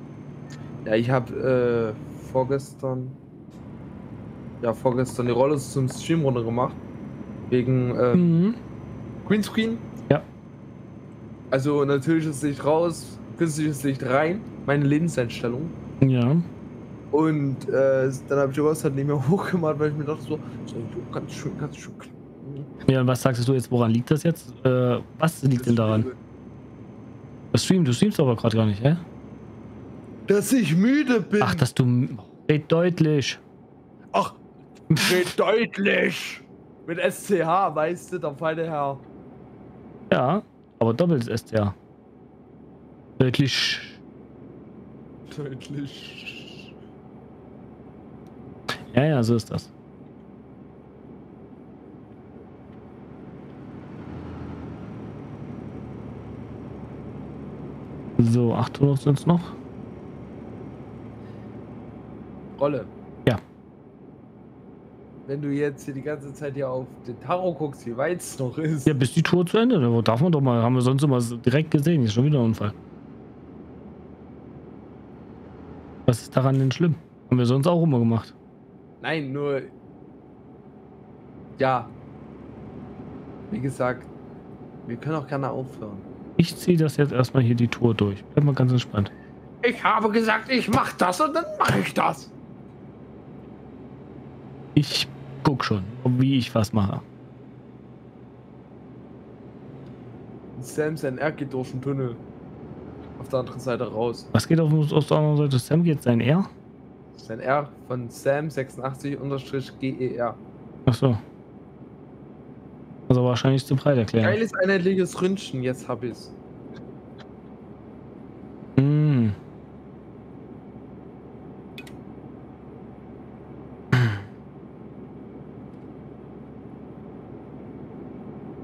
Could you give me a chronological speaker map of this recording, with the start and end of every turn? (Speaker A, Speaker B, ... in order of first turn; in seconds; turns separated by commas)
Speaker A: 0.8-3.2, Speaker A: 4.6-6.8, Speaker A: 7.5-8.4, Speaker B: 8.1-8.6, Speaker A: 9.2-9.9, Speaker A: 11.5-15.8, Speaker B: 16.0-16.5, Speaker A: 17.1-22.7, Speaker B: 22.9-26.1, Speaker A: 25.6-26.2, Speaker B: 27.5-29.0, Speaker A: 30.3-31.7, Speaker B: 31.4-33.4, Speaker A: 34.1-39.0, Speaker B: 34.9-35.2, Speaker B: 40.1-41.8, Speaker B: 43.2-44.0, Speaker A: 45.3-46.7, Speaker B: 48.9-49.7, Speaker B: 58.2-59.5, Speaker A: 62.6-62.9, Speaker A: 65.3-69.0, Speaker B: 68.9-72.8, Speaker B: 76.1-78.3, Speaker A: 79.0-79.7, Speaker A: 81.6-81.9, Speaker A: 83.5-84.1, Speaker A: 84.8-86.1, Speaker B: 86.4-89.1, Speaker A: 89.6-92.3, Speaker B: 94.8-97.0, Speaker A: 100.5-102.2, Speaker A: 103.2-104.3, Speaker B: 104.3-106.5, Speaker A: 107.2-110.4, Speaker B: 110.9-111.2, Speaker B: 113.1-114.4, Speaker A: 114.2-116.3, Speaker B: 118.8-119.4